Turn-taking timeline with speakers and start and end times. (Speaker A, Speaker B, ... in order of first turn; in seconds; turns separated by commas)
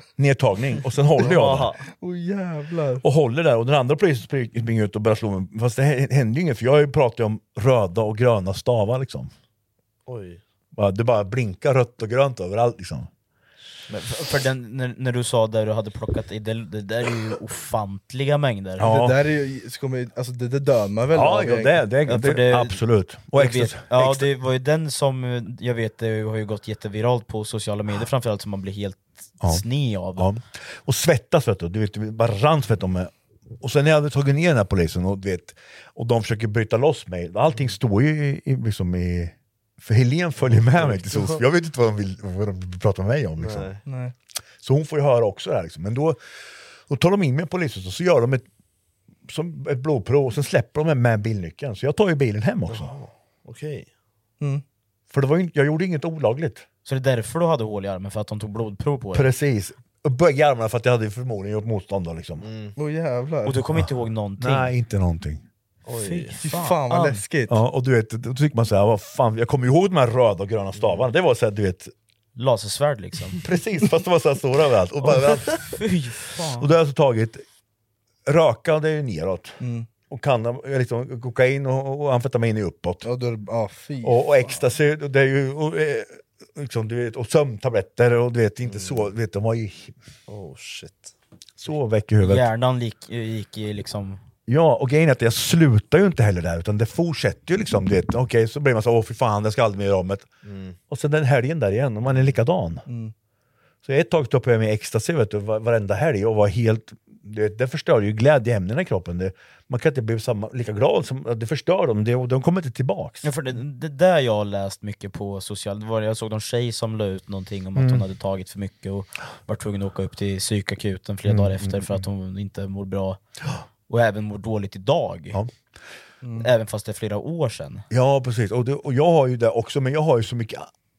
Speaker A: 0.2-1.7, Speaker B: 1.2-1.8, Speaker C: 1.9-3.0, Speaker A: 3.0-9.3, Speaker B: 10.1-10.4, Speaker A: 10.7-13.1, Speaker D: 13.9-18.9, Speaker A: 18.8-19.2, Speaker C: 18.8-21.8, Speaker A: 21.1-24.3, Speaker D: 22.1-22.8, Speaker D: 23.3-30.3, Speaker A: 30.1-43.7, Speaker B: 40.5-41.4, Speaker B: 43.4-43.8, Speaker C: 43.9-44.1, Speaker A: 44.6-46.2, Speaker A: 46.9-48.5, Speaker A: 49.3-52.9, Speaker B: 52.7-53.9, Speaker A: 55.1-56.6, Speaker D: 56.9-59.3, Speaker A: 59.1-62.5, Speaker B: 62.4-62.7, Speaker C: 62.8-63.6, Speaker D: 63.4-64.7, Speaker A: 64.4-65.4, Speaker B: 65.9-66.4, Speaker D: 66.0-67.2, Speaker C: 66.4-67.6, Speaker A: 67.5-71.9, Speaker B: 70.8-71.0, Speaker D: 72.3-73.4, Speaker A: 73.4-75.6, Speaker D: 75.5-76.7, Speaker A: 76.6-77.4, Speaker A: 78.2-83.0, Speaker C: 79.6-79.9, Speaker C: 83.0-84.6, Speaker A: 84.0-89.9, Speaker B: 88.7-89.1, Speaker B: 90.3-91.1, Speaker A: 91.6-92.5, Speaker D: 92.2-94.2, Speaker A: 94.5-100.3, Speaker B: 100.4-100.8, Speaker A: 100.9-102.8, Speaker C: 102.9-103.1, Speaker A: 103.8-113.3, Speaker D: 113.2-123.2, Speaker A: 117.7-118.0, Speaker A: 121.2-122.0, Speaker D: 123.9-125.4, Speaker C: 126.2-126.5, Speaker D: 126.4-127.8, Speaker A: 127.9-130.7